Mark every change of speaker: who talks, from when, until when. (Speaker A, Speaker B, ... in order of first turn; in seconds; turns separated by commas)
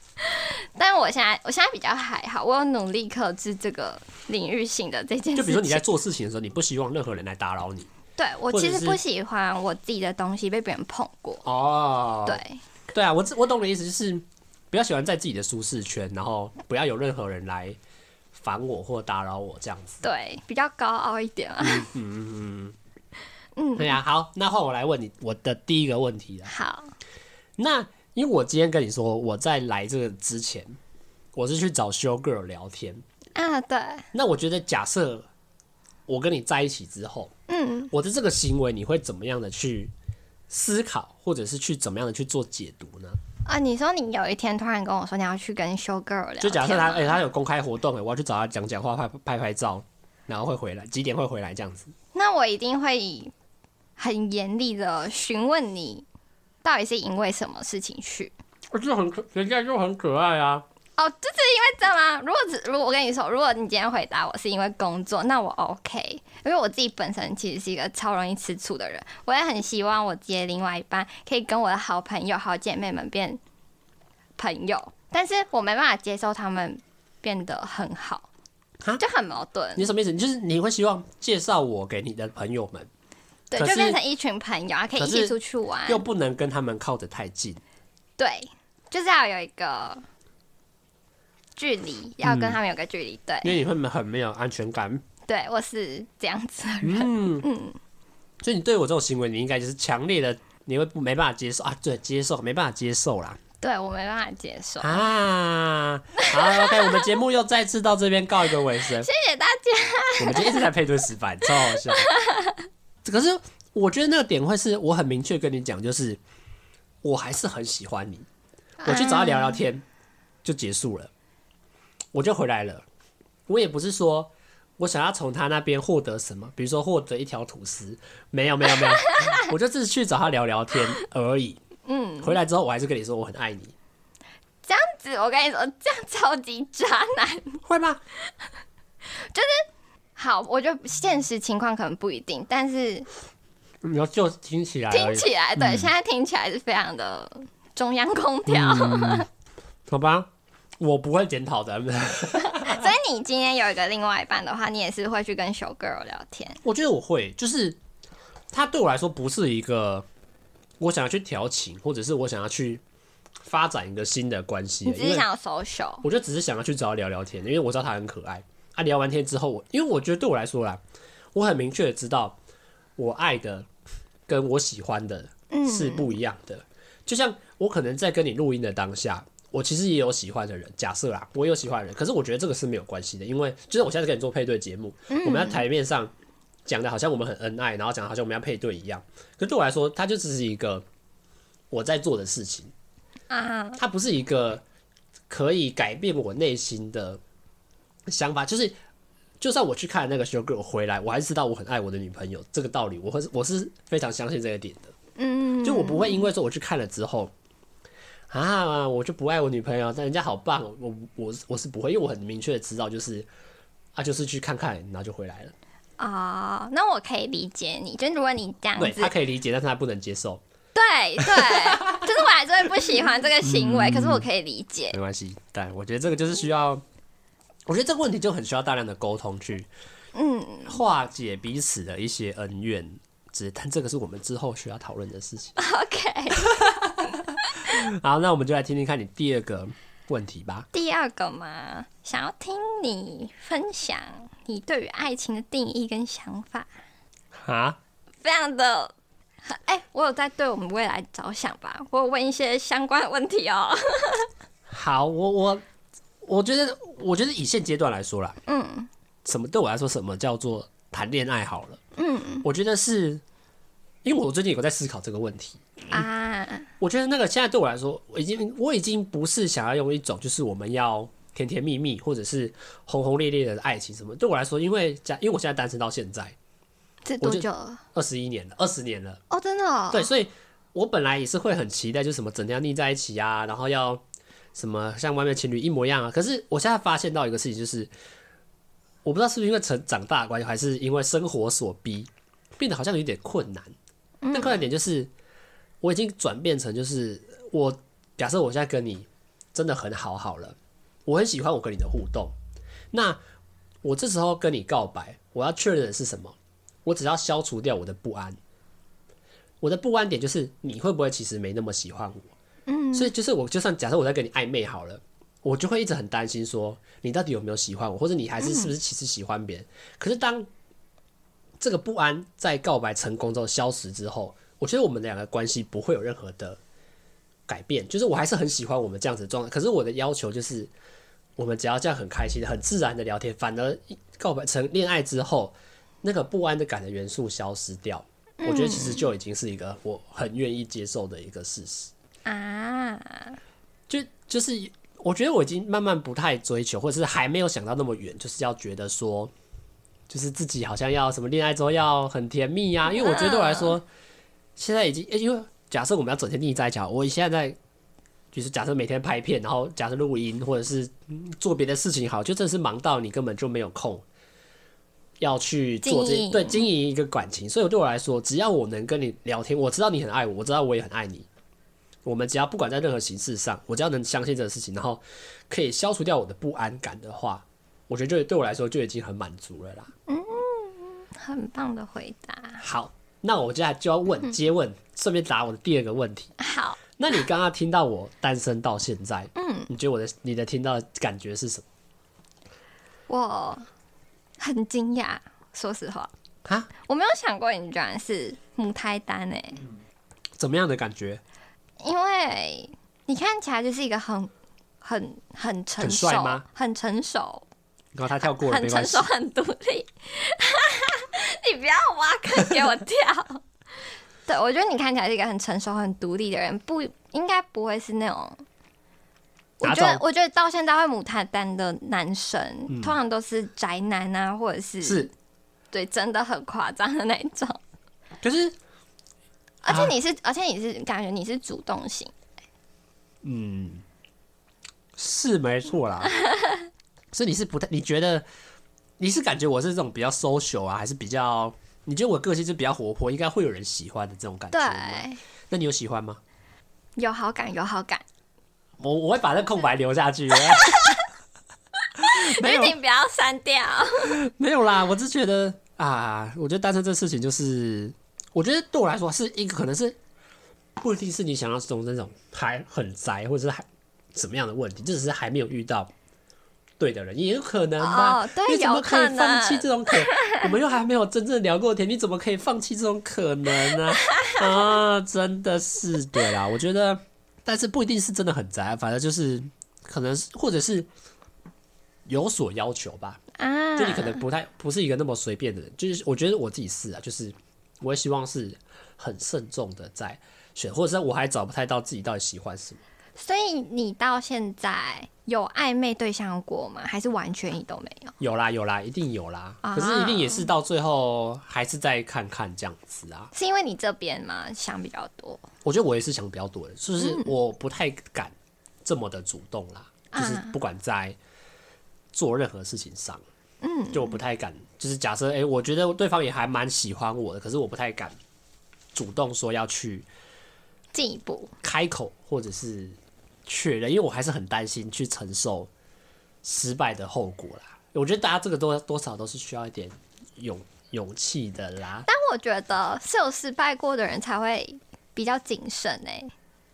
Speaker A: 0.2-5.8, Speaker B: 5.3-7.9, Speaker A: 8.2-11.4, Speaker B: 8.5-9.0, Speaker B: 11.4-17.8, Speaker A: 12.2-12.6, Speaker B: 18.3-20.0, Speaker A: 20.0-21.9, Speaker B: 21.6-22.8, Speaker A: 23.6-24.0, Speaker B: 23.8-26.5, Speaker A: 26.4-26.9, Speaker B: 27.6-30.8, Speaker B: 31.3-33.0, Speaker A: 33.3-34.1, Speaker B: 34.1-35.3, Speaker B: 36.1-37.3, Speaker A: 37.5-37.9, Speaker B: 37.9-39.9, Speaker B: 40.5-43.2, Speaker A: 43.5-47.2, Speaker B: 46.4-51.9, Speaker A: 52.1-53.3, Speaker A: 54.0-56.0, Speaker A: 56.6-58.3, Speaker B: 58.7-60.6, Speaker A: 61.0-73.4, Speaker A: 74.4-78.3, Speaker A: 79.0-79.9, Speaker B: 79.8-82.9, Speaker A: 83.5-86.0, Speaker B: 83.5-84.0, Speaker B: 85.0-87.6, Speaker A: 88.2-90.0, Speaker A: 91.5-93.5, Speaker B: 92.2-92.6, Speaker B: 93.4-95.0, Speaker A: 95.2-97.8, Speaker B: 96.8-97.5, Speaker B: 98.4-103.4, Speaker A: 103.6-105.0, Speaker B: 104.8-109.1, Speaker A: 106.2-107.0, Speaker A: 109.0-110.7, Speaker B: 110.2-112.1, Speaker A: 111.8-112.7, Speaker B: 113.0-116.2, Speaker B: 117.0-118.3, Speaker A: 118.8-119.6, Speaker B: 118.8-119.8, Speaker B: 120.4-121.1, Speaker B: 122.1-122.8, Speaker B: 123.5-131.6, Speaker A: 128.7-129.5, Speaker A: 131.8-132.3, Speaker B: 132.2-133.7, Speaker A: 134.6-137.6, Speaker B: 137.6-138.0, Speaker A: 139.1-143.1, Speaker B: 143.8-145.9, Speaker A: 144.9-149.3, Speaker B: 148.5-149.2, Speaker B: 149.9-150.3, Speaker B: 150.8-152.9, Speaker A: 152.4-156.6, Speaker B: 156.6-157.8, Speaker B: 158.5-160.0, Speaker B: 160.8-162.8, Speaker B: 163.4-165.2, Speaker A: 164.8-166.0, Speaker B: 166.0-170.8, Speaker B: 171.3-172.4, Speaker B: 173.0-173.7, Speaker B: 174.3-186.1, Speaker A: 175.5-176.1, Speaker A: 185.1-185.6, Speaker B: 186.7-190.8, Speaker B: 191.7-192.7, Speaker A: 193.3-193.8, Speaker B: 193.8-194.6, Speaker B: 195.3-197.2, Speaker B: 198.1-198.7, Speaker B: 199.4-204.9, Speaker A: 205.2-206.3, Speaker B: 205.6-207.3, Speaker B: 208.3-213.3, Speaker B: 213.9-215.5, Speaker A: 216.0-219.1, Speaker B: 218.8-220.4, Speaker A: 220.7-224.9, Speaker B: 221.2-222.0, Speaker B: 223.4-224.2, Speaker B: 224.9-226.8, Speaker B: 227.7-229.7, Speaker A: 230.1-230.8, Speaker B: 230.7-235.6, Speaker A: 235.6-236.5, Speaker B: 236.3-240.7, Speaker A: 240.7-246.7, Speaker B: 247.3-247.8, Speaker A: 248.2-254.3, Speaker B: 254.7-255.6, Speaker B: 256.2-258.4, Speaker A: 258.5-258.9, Speaker B: 259.2-261.8, Speaker A: 261.9-262.4, Speaker B: 262.4-263.2, Speaker B: 264.0-266.0, Speaker A: 265.9-266.7, Speaker B: 266.8-276.4, Speaker A: 277.1-277.8, Speaker B: 277.2-279.2, Speaker A: 279.3-280.1, Speaker B: 279.9-284.0, Speaker B: 284.5-287.9, Speaker B: 289.0-293.7, Speaker A: 294.2-294.6, Speaker B: 294.3-295.1, Speaker B: 295.8-300.6, Speaker B: 301.1-302.3, Speaker B: 302.9-303.2, Speaker B: 303.8-308.4, Speaker B: 309.6-312.3, Speaker A: 312.7-313.1, Speaker B: 312.9-320.5, Speaker A: 318.4-318.7, Speaker B: 321.6-326.6, Speaker B: 327.5-330.7, Speaker B: 331.4-341.9, Speaker A: 338.4-339.1, Speaker A: 342.2-343.4, Speaker B: 343.9-349.3, Speaker B: 350.1-353.8, Speaker A: 352.9-353.8, Speaker B: 354.6-357.6, Speaker B: 358.3-364.0, Speaker B: 365.2-371.3, Speaker A: 365.8-366.6, Speaker B: 372.0-379.9, Speaker A: 380.1-382.6, Speaker B: 382.6-386.3, Speaker A: 386.4-386.8, Speaker B: 387.0-391.6, Speaker A: 389.3-389.7, Speaker A: 393.1-393.6, Speaker A: 394.4-396.1, Speaker A: 396.8-399.6, Speaker B: 400.4-401.2, Speaker A: 401.8-407.4, Speaker B: 405.8-406.4, Speaker B: 407.9-409.1, Speaker A: 408.3-413.4, Speaker A: 414.3-418.4, Speaker A: 419.6-425.1, Speaker B: 419.6-420.0, Speaker B: 422.7-422.9, Speaker B: 424.8-425.1, Speaker A: 425.7-427.6, Speaker B: 428.2-428.5, Speaker A: 429.6-432.1, Speaker B: 429.7-429.9, Speaker B: 433.2-433.8, Speaker B: 435.0-436.2, Speaker A: 436.3-436.6, Speaker B: 437.1-438.2, Speaker B: 439.0-446.2, Speaker A: 444.5-445.2, Speaker A: 447.0-448.0, Speaker B: 448.8-451.0, Speaker A: 450.5-451.0, Speaker B: 452.0-452.8, Speaker A: 452.1-454.1, Speaker B: 454.0-460.0, Speaker B: 460.8-465.9, Speaker B: 466.8-480.9, Speaker A: 467.8-470.5, Speaker A: 474.0-474.5, Speaker B: 482.1-483.2, Speaker A: 483.4-484.2, Speaker B: 483.8-492.8, Speaker A: 493.2-498.1, Speaker B: 498.2-503.3, Speaker A: 499.6-500.5, Speaker A: 503.3-505.4, Speaker B: 505.6-508.3, Speaker A: 507.0-507.3, Speaker B: 508.8-511.2, Speaker A: 510.1-510.6, Speaker B: 512.1-513.2, Speaker A: 513.6-514.2, Speaker B: 513.9-518.1, Speaker B: 518.9-520.1, Speaker A: 520.9-521.5, Speaker B: 521.6-525.7, Speaker B: 526.4-532.1, Speaker A: 532.0-536.3